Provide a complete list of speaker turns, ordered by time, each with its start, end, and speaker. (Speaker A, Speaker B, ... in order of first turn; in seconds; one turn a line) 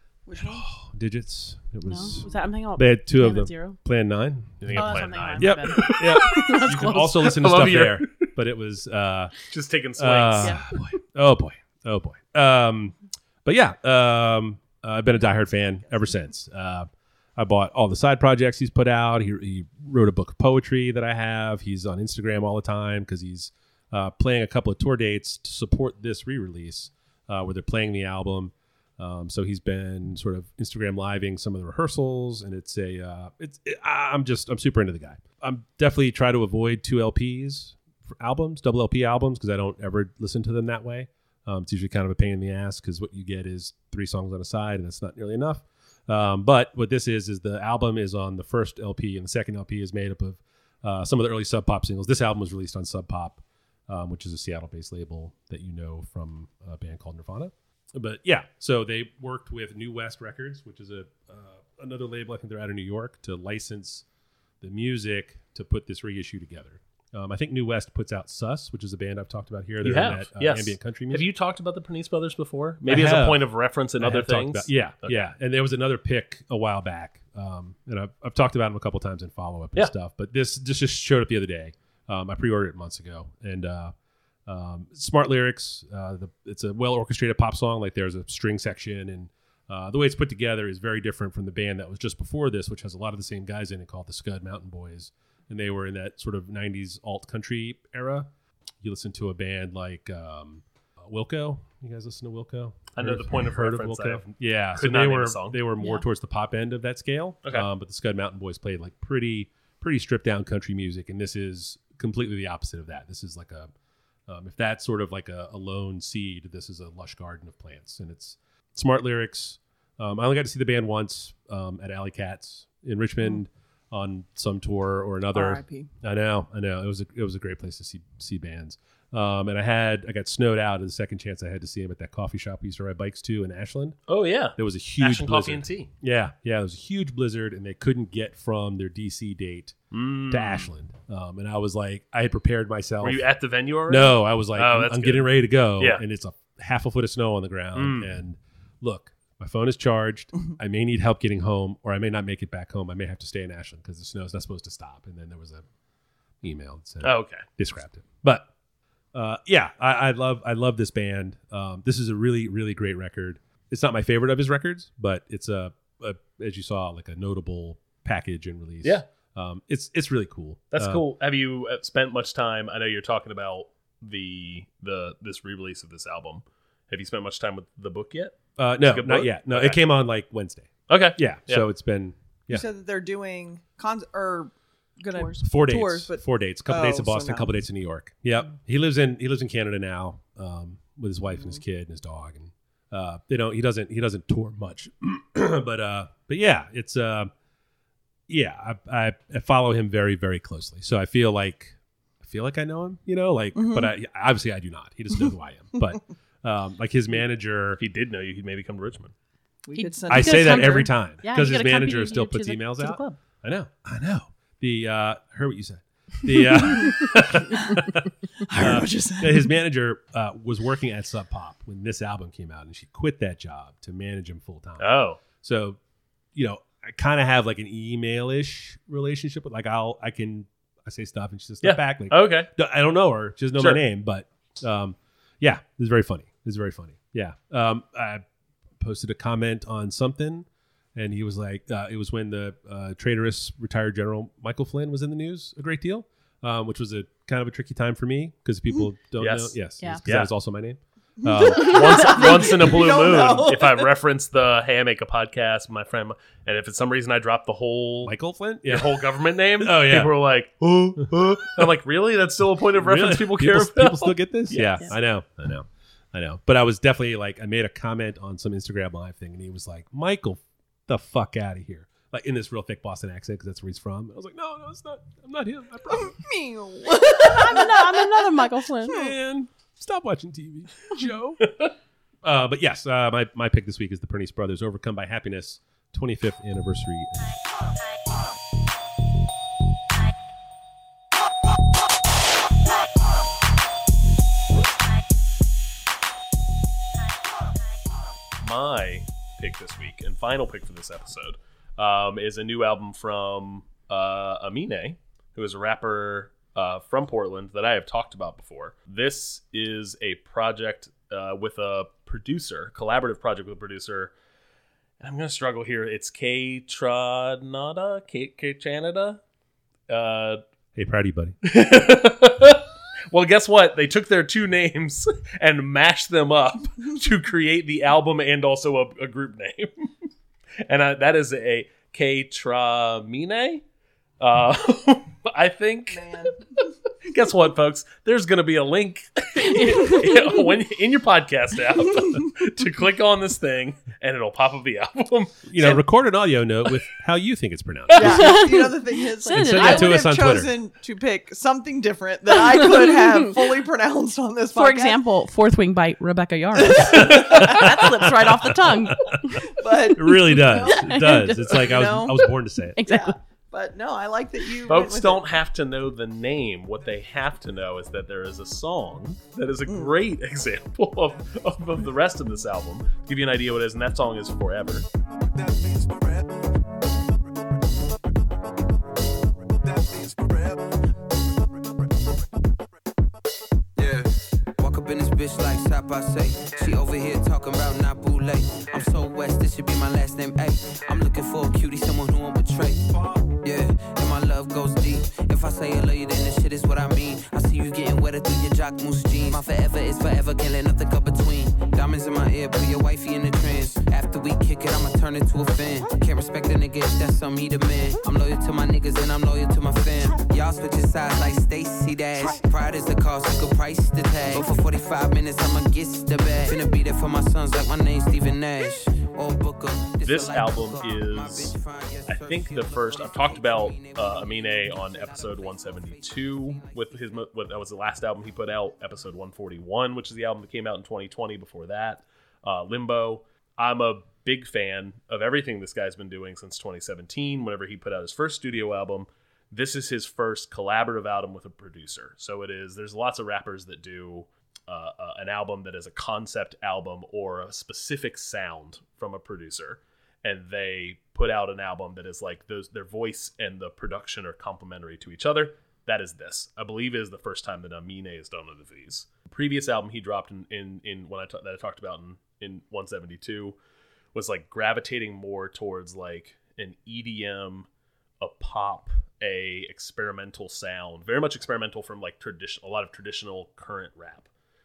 Speaker A: 0.3-0.7
Speaker B: 0.3-9.3
Speaker C: 1.9-3.8
Speaker D: 4.6-6.7
Speaker C: 4.7-7.3
Speaker D: 7.2-8.3
Speaker D: 9.5-10.8
Speaker B: 10.0-64.0
Speaker B: 64.6-71.3
Speaker D: 69.8-75.3
Speaker B: 72.9-83.9
Speaker B: 84.5-98.3
Speaker B: 98.8-113.7
Speaker D: 103.0-105.6
Speaker C: 105.8-106.0
Speaker B: 114.3-134.0
Speaker A: 125.3-125.9
Speaker D: 134.1-135.9
Speaker B: 134.5-139.8
Speaker D: 139.9-140.7
Speaker B: 140.3-143.3
Speaker D: 143.0-146.0
Speaker B: 143.9-155.6
Speaker D: 147.8-148.1
Speaker B: 156.4-158.5
Speaker D: 157.0-157.4
Speaker B: 159.1-171.0
Speaker D: 170.7-179.8
Speaker B: 178.6-182.7
Speaker D: 180.9-181.7
Speaker A: 182.5-187.5
Speaker B: 185.4-197.3
Speaker B: 198.3-207.8
Speaker A: 203.6-203.9
Speaker D: 207.8-209.1
Speaker A: 209.7-210.9
Speaker C: 209.8-213.2
Speaker B: 210.1-224.9
Speaker A: 218.4-219.5
Speaker D: 224.8-225.2
Speaker B: 225.4-225.8
Speaker B: 226.3-238.2
Speaker D: 231.6-232.5
Speaker D: 233.6-233.8
Speaker B: 238.8-252.0
Speaker D: 249.2-250.3
Speaker A: 251.2-253.9
Speaker D: 251.5-258.1
Speaker B: 258.0-260.2
Speaker D: 258.7-264.9
Speaker B: 262.8-276.2
Speaker A: 275.9-278.2
Speaker C: 277.2-279.1
Speaker B: 278.9-281.6
Speaker B: 282.2-287.3
Speaker D: 298.4-314.1
Speaker D: 315.0-319.2
Speaker D: 319.9-320.4
Speaker B: 320.8-321.4
Speaker D: 321.4-329.7
Speaker D: 330.7-333.6
Speaker D: 334.2-336.1
Speaker A: 335.9-336.4
Speaker D: 337.0-345.8
Speaker C: 339.4-340.3
Speaker B: 345.5-348.5
Speaker A: 347.9-355.0
Speaker C: 348.0-350.0
Speaker B: 349.3-350.5
Speaker C: 352.5-353.2
Speaker C: 354.5-362.0
Speaker A: 356.8-357.8
Speaker B: 356.8-359.4
Speaker A: 359.4-360.9
Speaker B: 359.9-362.8
Speaker A: 361.5-362.3
Speaker C: 362.8-363.1
Speaker A: 362.8-365.2
Speaker D: 364.7-374.9
Speaker A: 369.7-369.9
Speaker E: 383.8-384.1
Speaker E: 384.6-427.2
Speaker D: 420.0-421.6
Speaker D: 422.1-463.6
Speaker D: 464.1-467.7
Speaker D: 468.2-474.3